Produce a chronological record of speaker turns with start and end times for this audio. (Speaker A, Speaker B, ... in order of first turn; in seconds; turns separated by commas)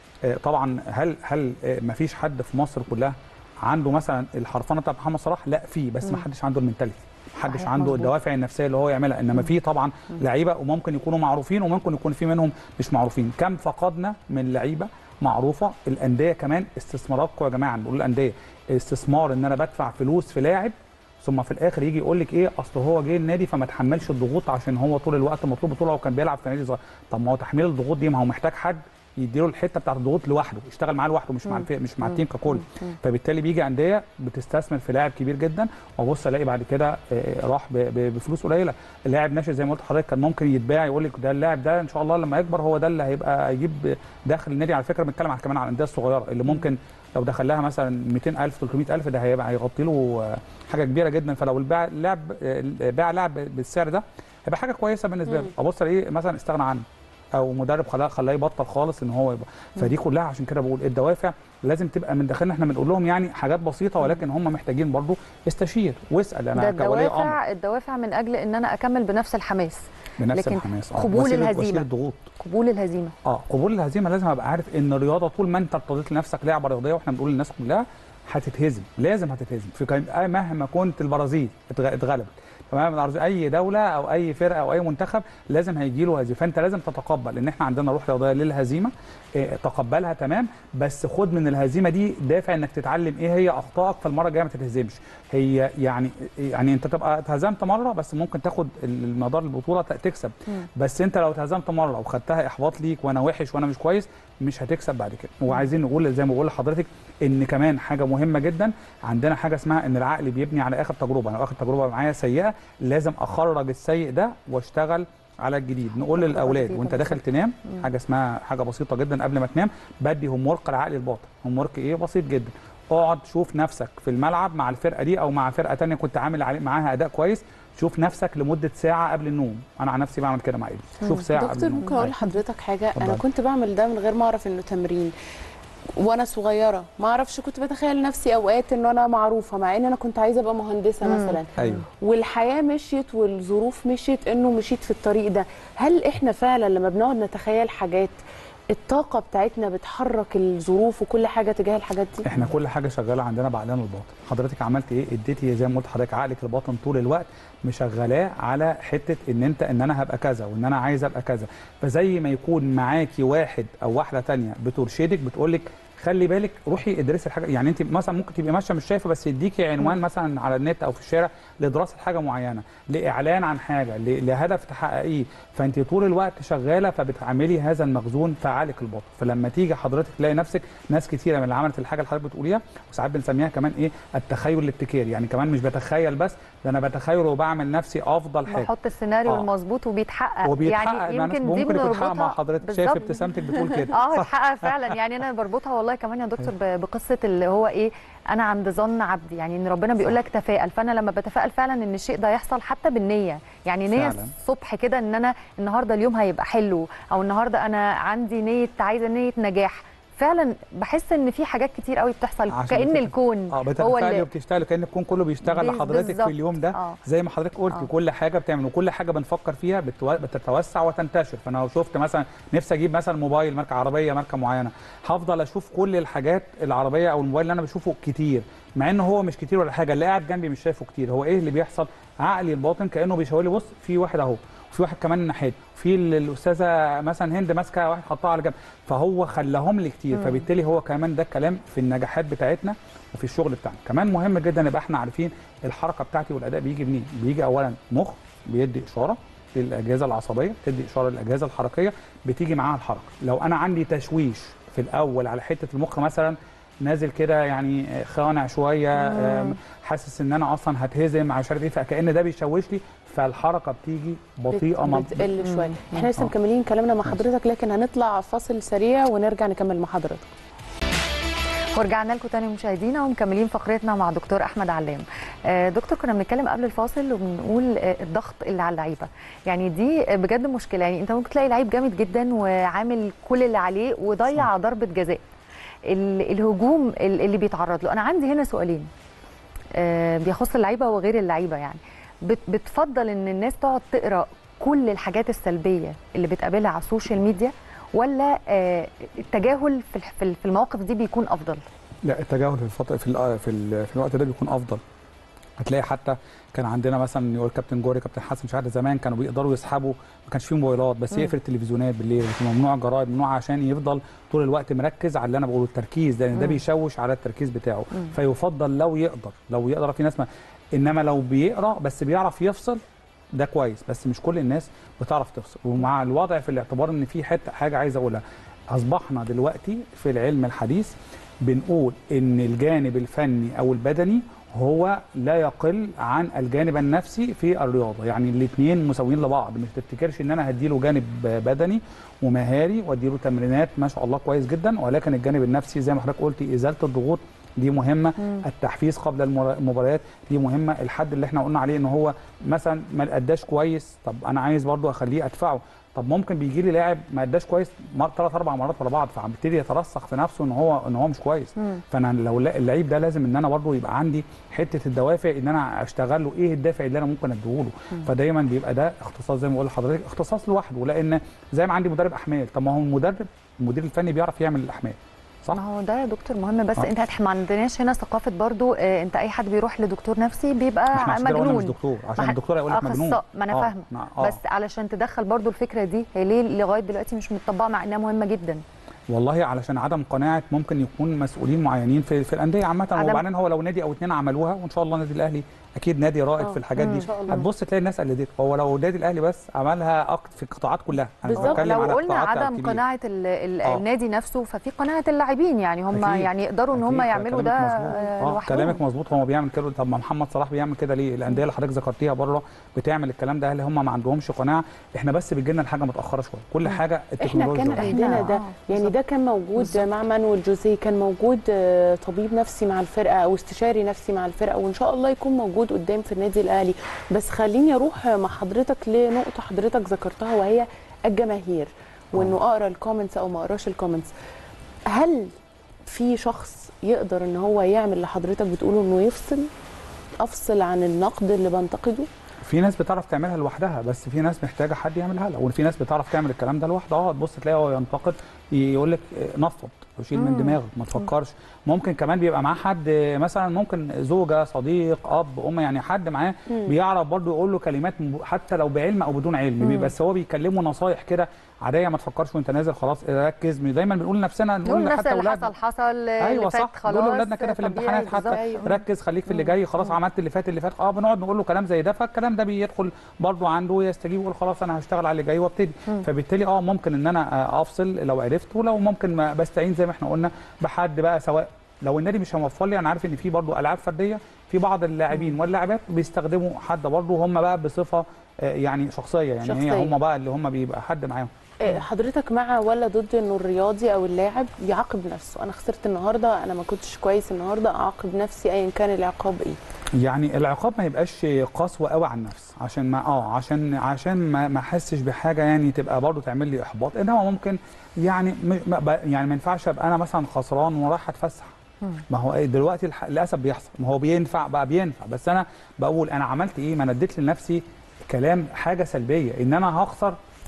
Speaker A: 0.2-56.8, Speaker B: 7.5-8.1, Speaker A: 57.4-67.4, Speaker B: 66.5-71.8, Speaker A: 70.2-72.3, Speaker B: 72.4-73.1, Speaker A: 73.2-132.1, Speaker B: 116.1-117.2, Speaker C: 131.3-135.1, Speaker A: 132.9-133.2, Speaker C: 136.0-148.2, Speaker B: 141.0-141.4, Speaker A: 141.6-141.8, Speaker C: 148.7-152.4, Speaker A: 152.2-188.7, Speaker B: 188.5-193.1, Speaker A: 190.4-194.9, Speaker B: 193.9-214.3, Speaker A: 203.9-204.3, Speaker A: 212.5-265.2, Speaker B: 215.4-217.0, Speaker B: 259.0-259.6, Speaker C: 264.5-270.3, Speaker B: 265.4-266.1, Speaker B: 271.7-285.2, Speaker B: 285.9-288.9, Speaker B: 289.7-301.6, Speaker A: 302.0-304.8, Speaker A: 305.6-322.8, Speaker A: 323.3-375.6, Speaker B: 375.5-388.6, Speaker A: 380.9-384.4, Speaker A: 389.1-402.8, Speaker B: 392.9-393.2, Speaker B: 396.8-397.4, Speaker C: 396.8-397.4, Speaker B: 401.3-408.8, Speaker C: 401.4-401.6, Speaker A: 405.9-418.3, Speaker C: 417.2-434.1, Speaker B: 417.8-418.9, Speaker C: 434.9-435.4, Speaker C: 435.9-439.5, Speaker C: 440.2-442.1, Speaker A: 442.4-465.5, Speaker B: 450.1-450.6, Speaker B: 459.6-459.9, Speaker B: 464.6-468.7, Speaker A: 466.2-491.3, Speaker C: 468.2-468.8, Speaker C: 489.4-489.9, Speaker C: 491.6-499.6, Speaker A: 500.0-511.5, Speaker A: 512.1-520.2